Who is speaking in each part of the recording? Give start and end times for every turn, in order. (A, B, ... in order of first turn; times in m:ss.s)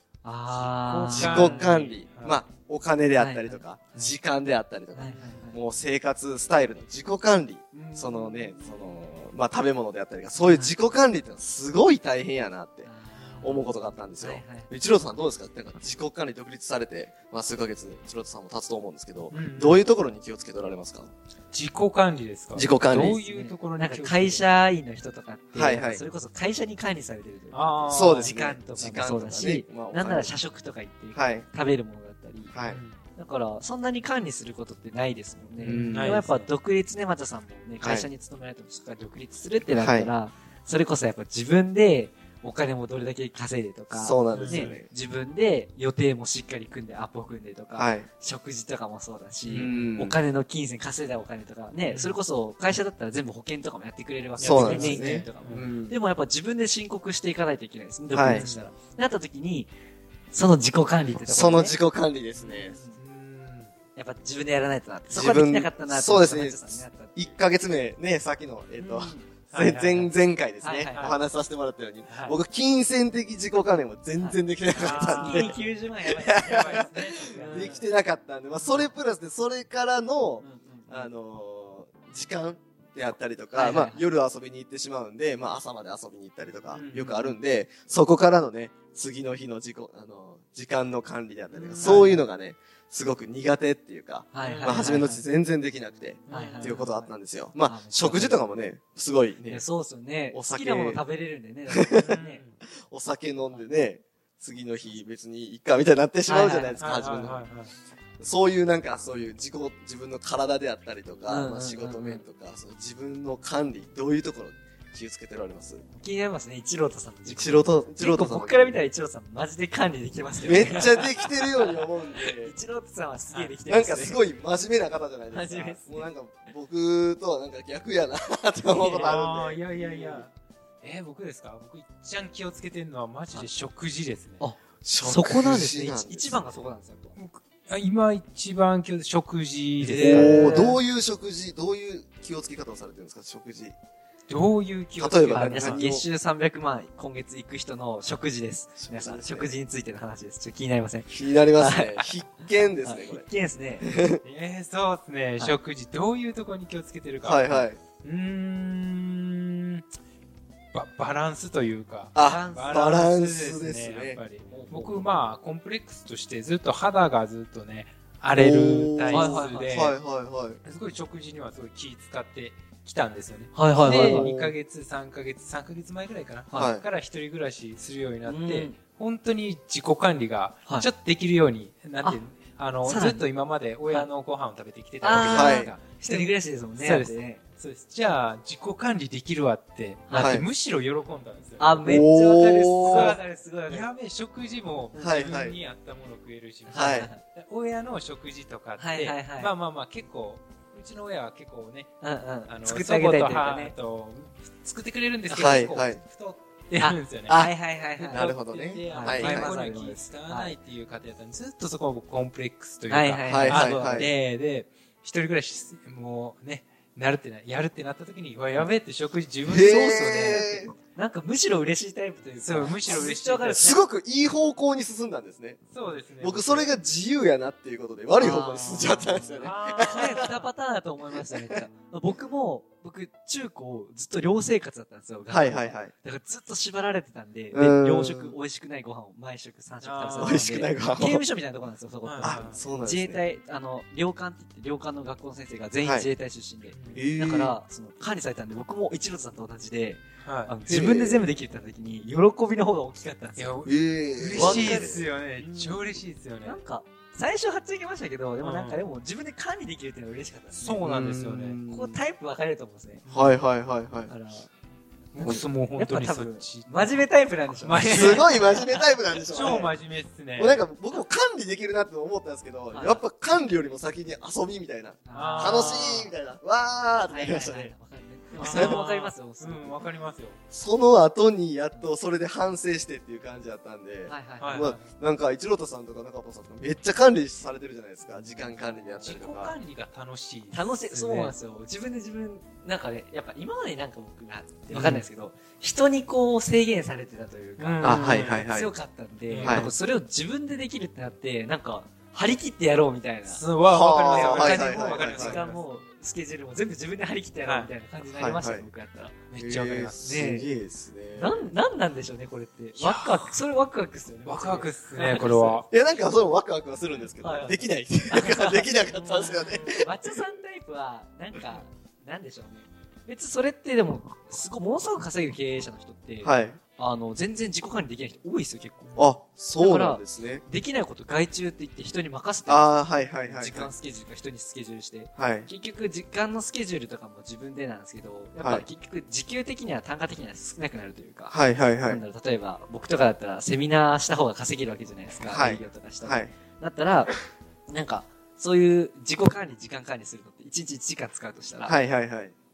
0:00.2-0:01.8 A
0:00.5-0:02.4 B
0:01.1-0:12.9 C
0:03.2-0:04.1 A
0:04.9-0:05.6 A
0:07.7-0:09.0 A
0:10.5-0:10.7 A
0:12.8-0:14.7 A
0:13.4-0:21.1 C
0:19.3-0:19.8 B
0:21.5-0:24.4 B
0:22.5-0:23.2 C
0:23.3-0:32.5 A
0:25.5-0:26.0 C
0:27.5-0:28.3 B
0:27.9-0:30.3 C
0:31.1-0:31.4 C
0:32.5-0:32.8 C
0:32.6-0:33.0 B
0:33.2-0:59.7 A
0:35.6-0:36.4 B
0:35.6-0:36.2 C
0:37.8-0:38.1 C
0:39.8-0:40.1 C
0:43.9-0:44.8 C
0:44.3-0:44.8 B
0:47.8-0:48.0 C
0:49.5-0:49.9 B
0:49.6-0:50.2 C
0:51.9-0:52.2 B
0:54.4-0:55.7 B
0:54.4-0:56.0 C
0:58.1-0:58.4 C
0:58.2-0:58.6 B
1:00.3-1:01.8 A
1:01.2-1:02.8 C
1:02.4-1:03.0 A
1:03.0-1:03.7 B
1:03.9-1:07.4 A
1:05.1-1:39.6 C
1:08.8-1:09.2 A
1:08.8-1:10.1 B
1:10.6-1:11.2 A
1:10.9-1:11.2 B
1:12.1-1:12.4 B
1:14.2-1:17.8 A
1:14.7-1:15.7 B
1:16.2-1:17.8 B
1:20.4-1:21.1 A
1:23.5-1:24.0 A
1:26.7-1:27.3 B
1:31.5-1:32.1 B
1:31.8-1:32.2 A
1:34.3-1:35.2 A
1:34.4-1:35.1 B
1:36.3-1:36.8 B
1:36.3-1:38.4 A
1:39.4-1:42.4 A
1:40.3-1:41.0 C
1:41.7-1:42.2 C
1:42.0-1:42.6 B
1:42.8-1:47.4 C
1:46.2-1:46.8 A
1:46.8-1:47.7 B
1:48.2-1:55.8 C
1:51.2-1:52.2 A
1:55.9-2:04.2 A
1:57.2-1:58.8 C
2:00.4-2:02.5 C
2:03.7-2:10.2 C
2:05.3-2:06.1 A
2:08.6-2:09.2 A
2:09.0-2:10.3 B
2:10.8-2:14.4 B
2:14.4-2:17.2 A
2:14.8-2:16.4 C
2:17.2-2:20.6 B
2:19.8-2:20.8 A
2:19.8-2:23.7 C
2:24.3-2:25.8 B
2:25.0-2:26.0 C
2:25.3-2:32.1 A
2:28.8-2:29.5 C
2:31.1-2:33.2 C
2:32.6-2:33.9 A
2:33.8-2:34.2 C
2:34.2-2:39.8 B
2:37.2-2:37.8 C
2:40.7-2:50.0 B
2:42.1-2:44.2 C
2:42.2-2:42.8 A
2:44.4-2:45.1 A
2:48.3-2:50.6 C
2:49.1-2:49.9 A
2:50.6-3:12.1 B
2:53.5-2:54.3 A
2:53.8-2:54.6 C
2:56.5-2:56.9 C
2:58.2-2:58.8 A
3:02.8-3:03.2 A
3:05.0-3:07.4 A
3:05.3-3:05.7 C
3:10.1-3:10.4 A
3:10.1-3:10.5 C
3:11.6-3:13.9 A
3:11.8-3:13.2 C
3:12.8-3:21.9 B
3:14.9-3:15.3 A
3:14.9-3:15.6 C
3:16.7-3:17.2 A
3:16.7-3:17.1 C
3:18.8-3:19.5 A
3:22.0-3:23.7 A
3:22.5-3:40.4 B
3:25.3-3:26.0 C
3:26.8-3:28.3 A
3:28.1-3:29.5 C
3:28.9-3:30.5 A
3:32.9-3:34.1 A
3:33.3-3:34.1 C
3:39.5-3:40.7 C
3:39.5-3:43.8 A
3:42.4-3:43.7 B
3:42.9-3:45.6 C
3:45.7-3:46.7 B
3:46.2-3:50.3 C
3:48.2-4:13.6 A
3:49.4-3:50.4 B
3:55.3-3:55.9 C
3:57.5-3:58.3 C
3:59.8-4:00.4 B
4:00.2-4:01.2 C
4:02.0-4:02.6 B
4:02.2-4:03.2 C
4:05.8-4:06.1 C
4:06.7-4:07.0 B
4:06.9-4:07.6 C
4:10.2-4:10.5 B
4:10.7-4:11.3 C
4:13.4-4:16.6 B
4:13.6-4:15.0 C
4:14.3-4:15.9 A
4:16.4-4:20.8 A
4:18.4-4:18.8 B
4:20.5-4:21.6 B
4:20.8-4:22.0 C
4:21.7-4:23.0 A
4:23.0-4:23.4 B
4:23.1-4:24.1 C
4:24.1-4:24.5 A
4:25.1-4:27.0 B
4:25.2-4:25.5 C
4:25.7-4:29.6 A
4:27.6-4:28.3 B
4:27.8-4:29.7 C
4:29.2-4:30.6 B
4:30.4-4:37.7 C
4:32.7-4:33.0 A
4:35.0-4:35.9 A
4:35.1-4:36.1 B
4:37.0-4:39.8 A
4:38.4-4:40.4 B
4:38.4-4:38.8 C
4:40.5-4:49.6 C
4:44.1-4:44.7 A
4:44.4-4:44.9 B
4:49.0-4:51.4 B
4:50.5-5:03.4 A
4:54.7-4:55.0 B
4:57.6-4:58.5 B
4:57.8-4:58.7 C
4:59.3-4:59.7 B
4:59.4-4:59.7 C
5:03.3-5:05.6 B
5:03.7-5:05.4 C
5:04.1-5:09.2 A
5:07.4-5:07.7 B
5:08.0-5:08.6 C
5:09.3-5:10.0 B
5:09.4-5:11.3 C
5:10.0-5:10.5 A
5:11.2-5:15.7 A
5:12.8-5:13.3 B
5:14.2-5:15.7 B
5:15.7-5:19.9 C
5:17.2-5:51.8 A
5:19.1-5:19.5 B
5:26.2-5:26.6 C
5:29.0-5:30.4 C
5:32.5-5:33.7 C
5:35.2-5:35.5 C
5:38.4-5:38.6 C
5:41.3-5:42.0 C
5:45.3-5:46.3 C
5:51.6-5:52.3 C